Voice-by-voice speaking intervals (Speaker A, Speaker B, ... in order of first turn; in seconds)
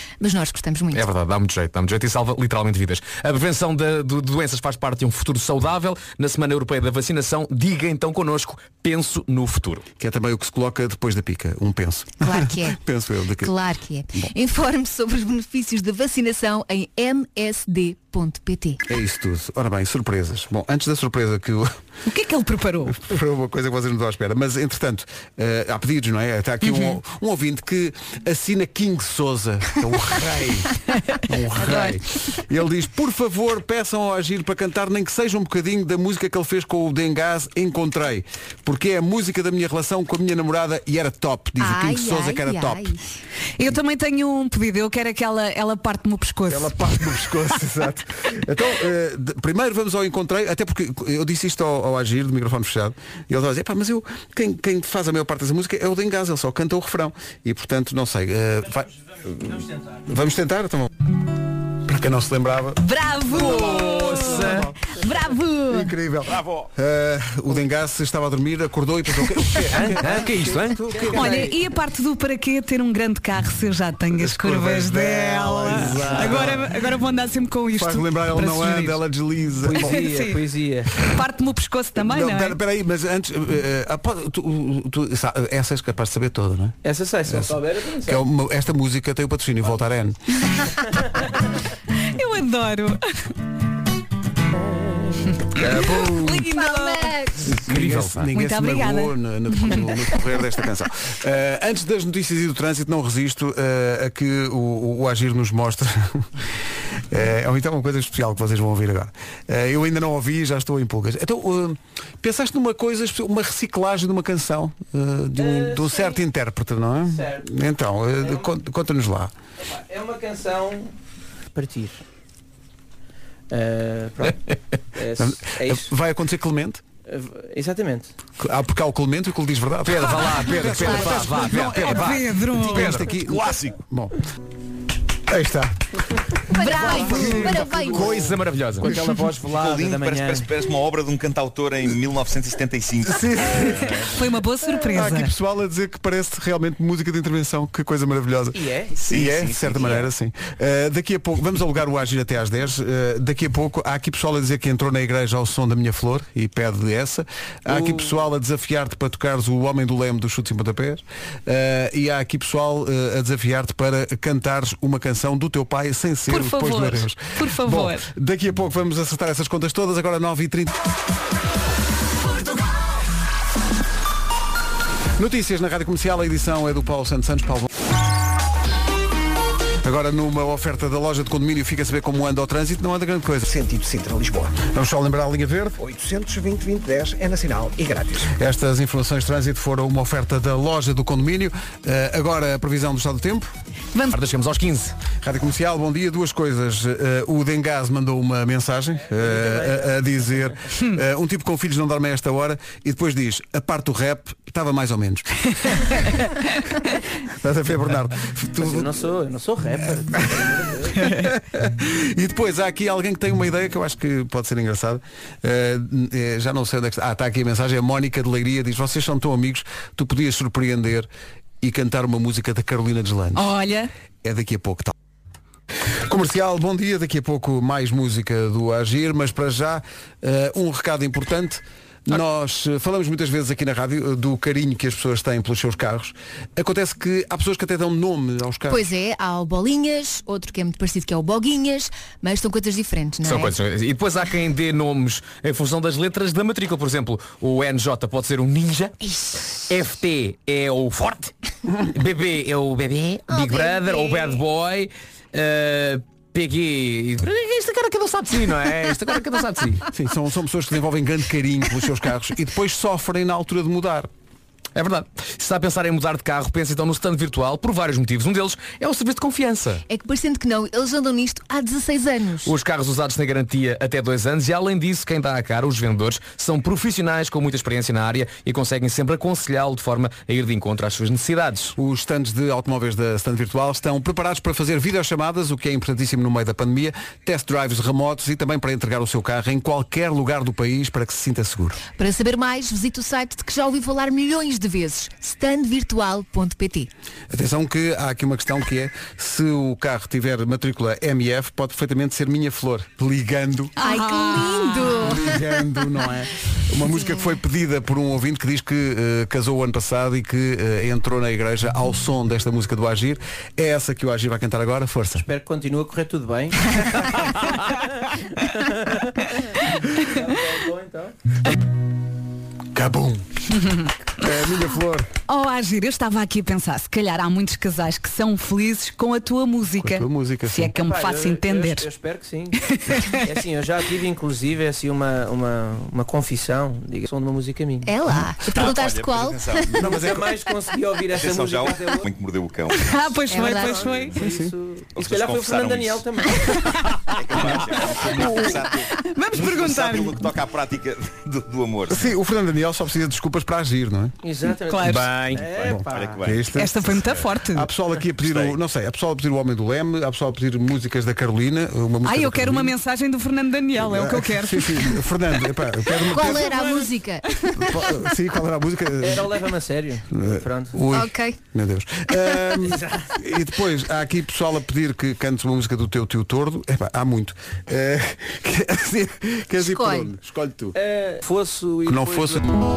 Speaker A: 0.2-1.1, 12.2-12.8, 13.4-18.8, 41.6-43.2, 96.3-97.6, 136.5-138.3, 238.7-243.5, 253.3-254.4, 269.9-272.5, 291.9-296.9, 303.8-305.4, 337.8-339.7, 343.3-343.9, 366.0-368.0, 370.9-371.4, 379.6-380.1
Speaker B: 0.9-9.8, 63.3-64.7, 69.8-70.8, 97.6-98.3, 129.8-133.1, 137.8-138.9, 194.1-194.9, 243.2-249.0, 249.6-259.9, 264.7-269.8, 272.4-281.7, 354.8-355.5
Speaker C: 10.0-13.5, 18.9-21.7, 22.9-42.9, 46.5-60.9, 61.9-62.8, 64.2-64.7, 65.7-71.4, 74.1-76.7, 77.8-80.1, 82.1-86.8, 87.3-87.5, 88.1-90.2, 95.5-96.5, 97.6-106.3, 107.1-119.3, 125.2-126.8, 128.4-134.1, 135.3-135.7, 136.5-138.1, 143.1-143.8, 144.9-170.8, 175.2-177.7, 179.8-183.5, 184.7-185.8, 188.3-193.5, 195.2-206.0, 207.4-209.0, 210.2-210.4, 211.0-221.1, 221.6-223.5, 224.2-224.9, 226.1-238.8, 259.9-264.1, 281.8-291.8, 297.3-303.7, 305.0-315.2, 322.7-323.2, 324.2-325.1, 329.8-330.8, 339.7-340.3, 344.1-344.5, 351.9-354.1, 355.7-362.7, 363.8-366.7, 367.6-369.5, 370.1-380.8, 381.9-382.4
Speaker D: 22.1-23.0, 26.6-26.9, 31.6-31.9, 43.6-46.8, 62.8-65.8, 71.1-79.0, 79.7-80.4, 81.0-82.5, 92.0-93.0, 95.5-97.2, 98.3-99.8, 131.5-132.9, 144.1-145.3, 166.3-168.0, 223.3-223.9, 303.8-305.2, 325.3-331.9, 332.7-333.2, 342.7-344.1, 348.2-350.2, 354.7-355.1, 356.5-357.7, 362.0-365.0
Speaker E: 66.2-66.7, 133.2-133.7, 139.4-144.2, 149.0-150.1, 338.5-340.0, 341.1-343.2, 344.9-346.1, 347.1-352.1, 355.3-357.3, 358.2-358.6
Speaker F: 69.7-71.5, 75.8-76.5, 79.6-80.9, 86.8-88.2, 94.6-95.3, 115.4-116.2, 117.0-117.5, 118.2-118.5, 119.6-120.9, 121.5-122.0, 123.5-125.9, 127.0-128.1, 138.8-140.5, 148.5-148.9, 157.7-158.2, 199.0-200.0, 208.6-211.1, 315.1-317.0, 317.7-319.2, 320.0-321.1, 330.8-337.9, 339.8-342.1, 343.6-346.7, 354.2-356.2, 369.0-370.8, 372.6-373.1, 380.7-382.4
Speaker G: 183.4-184.7, 185.8-188.3